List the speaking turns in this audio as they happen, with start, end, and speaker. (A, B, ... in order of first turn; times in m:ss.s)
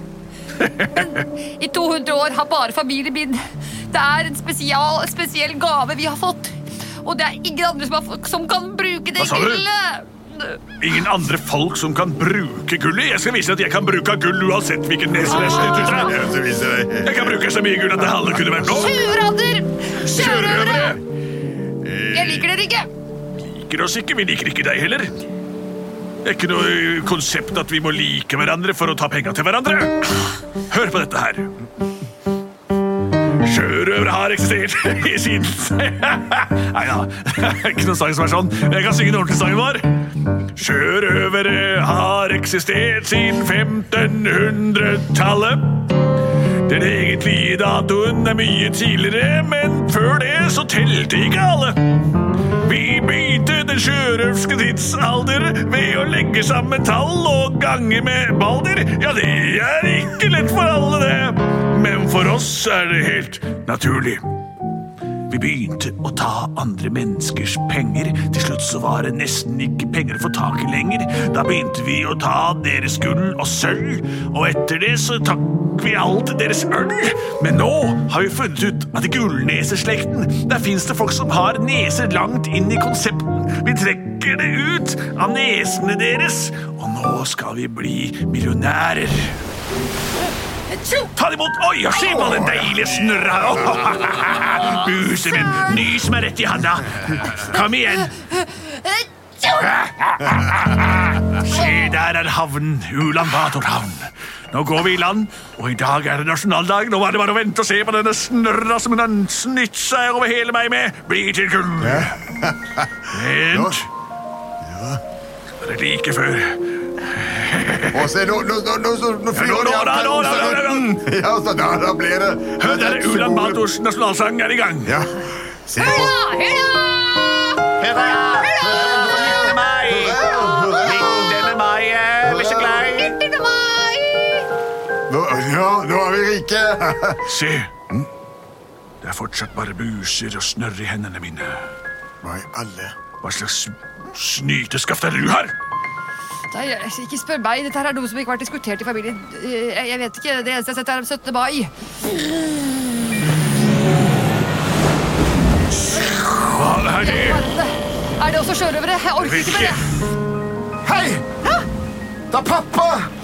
0:00.6-0:01.2 A
0:00.9-0:03.4 B
0:03.9-0:10.6 B
0:09.2-0:09.7 A
0:10.8-0:16.2 A
0:15.2-0:16.2 B
0:15.4-0:19.0 C
0:17.0-0:19.1 A
0:18.7-0:21.0 B
0:20.0-0:21.0 A
0:21.8-0:22.5 C
0:22.1-0:22.9 B
0:23.4-0:25.1 A
0:26.2-0:31.5 A
0:33.4-0:40.0 A
0:40.6-0:45.9 A
0:46.6-0:52.0 A
0:52.6-1:04.2 A
1:05.2-1:29.4 A
1:30.7-1:31.1 B
1:31.1-1:38.1 A
1:31.9-1:32.4 B
1:34.7-1:35.7 B
1:38.3-1:39.7 B
1:39.6-1:52.2 A
1:41.6-1:41.8 B
1:51.8-1:53.8 C
1:53.1-1:53.9 A
1:54.6-1:55.0 C
1:55.6-1:58.1 A
1:57.9-2:03.6 C
1:59.3-2:00.9 A
2:02.6-2:05.0 A
2:04.8-2:06.2 C
2:05.8-2:09.6 B
2:07.8-2:13.2 A
2:08.6-2:11.5 C
2:10.2-2:10.8 B
2:12.2-2:12.9 C
2:12.9-2:14.5 B
2:15.1-2:17.3 C
2:17.3-2:17.7 A
2:19.0-2:21.7 A
2:22.2-2:23.0 C
2:23.2-2:25.5 A
2:26.5-2:33.1 B
2:36.0-2:37.5 A
2:36.0-2:40.0 B
2:39.2-2:39.9 A
2:40.8-2:41.2 C
2:41.3-2:41.6 B
2:42.3-2:43.1 C